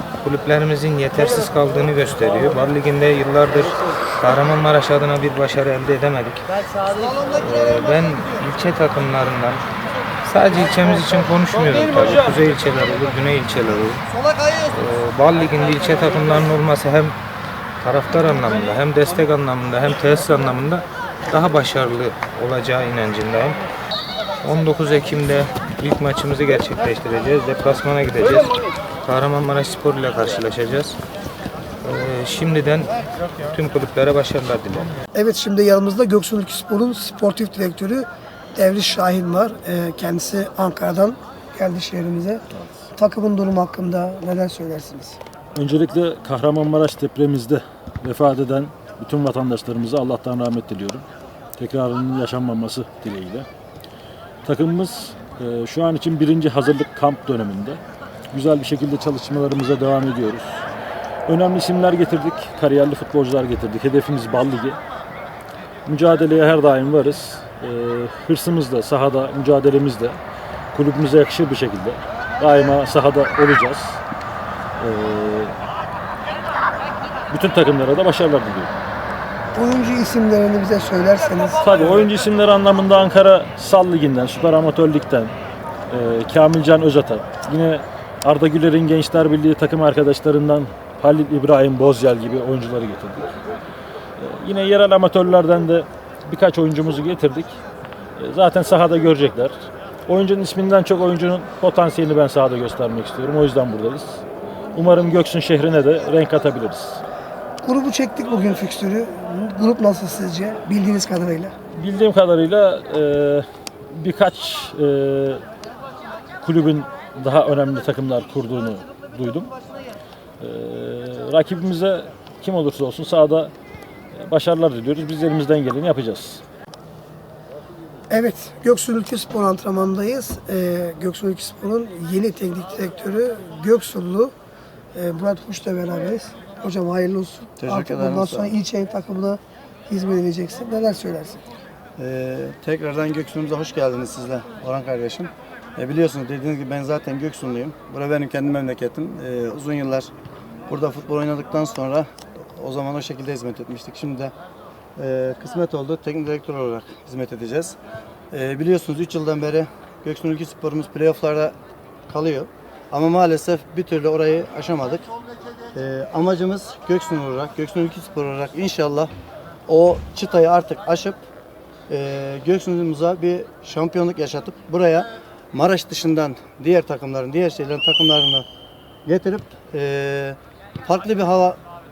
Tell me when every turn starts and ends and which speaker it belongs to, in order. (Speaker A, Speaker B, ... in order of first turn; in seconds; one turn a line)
Speaker A: 0.2-6.4
Speaker A: 7.3-9.6
Speaker A: 10.2-14.0
Speaker A: 14.7-17.1
Speaker A: 17.8-23.6
Speaker A: 24.4-28.5
Speaker A: 29.0-31.0
Speaker A: 31.8-32.9
Speaker A: 33.5-35.0
Speaker B: 35.1-42.4
Speaker B: 43.0-45.2
Speaker C: 45.5-51.0
Speaker C: 51.6-53.5
Speaker C: 54.4-57.8
Speaker C: 58.3-60.6
Speaker C: 61.3-64.8
Speaker C: 65.9-70.2
Speaker C: 70.7-74.0
Speaker C: 74.8-75.5
Speaker C: 77.3-78.7
Speaker B: 79.5-81.8
Speaker C: 81.6-85.3
Speaker C: 85.9-93.3
Speaker C: 94.2-97.6
Speaker C: 98.2-99.5
Speaker C: 100.1-104.2
Speaker C: 104.8-107.0
Speaker B: 107.6-111.5
Speaker C: 111.7-115.4
Speaker C: 116.4-119.5
Speaker C: 120.4-123.5
Speaker C: 124.2-126.4
Speaker B: 128.1-134.3
Speaker B: 134.9-141.4
Speaker D: 137.6-138.6
Speaker D: 142.0-150.1
Speaker D: 150.7-154.3
Speaker D: 155.0-157.8
Speaker D: 158.3-161.6
Speaker D: 162.1-165.1
Speaker D: 165.8-169.1
Speaker D: 169.7-171.2
Speaker D: 171.9-178.5
Speaker D: 179.1-181.6